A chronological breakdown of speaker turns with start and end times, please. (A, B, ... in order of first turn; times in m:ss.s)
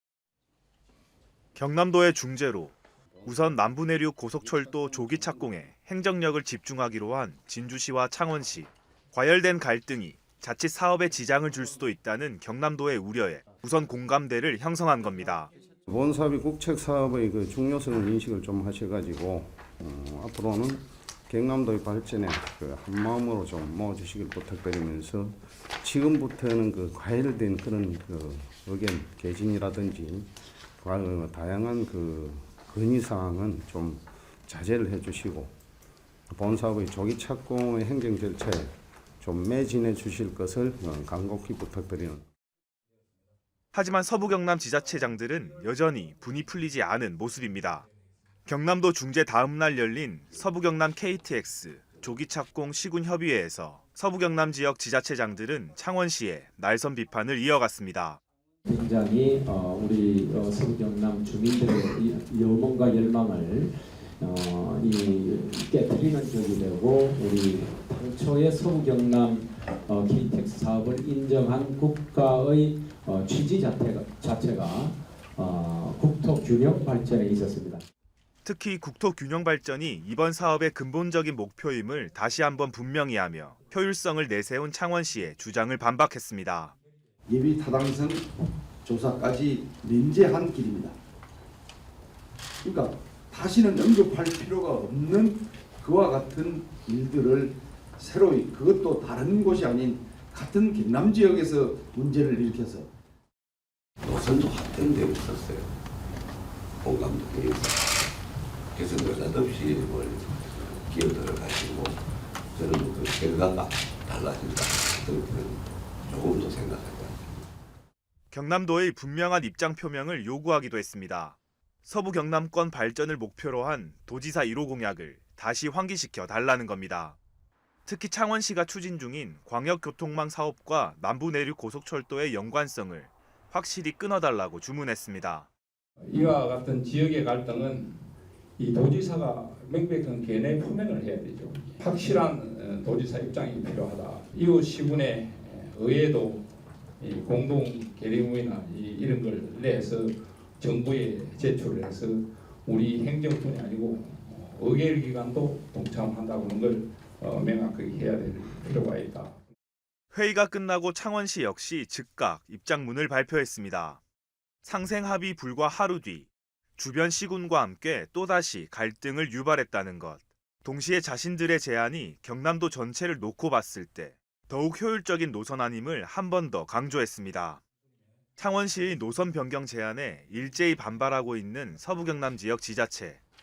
0:01.6-0:15.5 A
0:15.9-0:35.5 B
0:36.3-0:42.3 B
0:43.7-0:47.9 A
0:48.5-0:58.2 A
0:58.7-1:17.8 C
1:18.4-1:26.8 A
1:27.3-1:28.3 D
1:28.8-1:31.0 D
1:32.6-1:42.9 D
1:44.0-1:45.7 E
1:46.8-1:47.9 E
1:48.7-1:57.4 E
1:58.3-2:07.2 A
2:07.9-2:15.5 A
2:16.1-2:18.0 F
2:18.6-2:26.5 F
2:27.0-2:39.4 F
2:40.1-2:44.0 A
2:44.6-2:57.6 A
2:58.4-3:03.2 A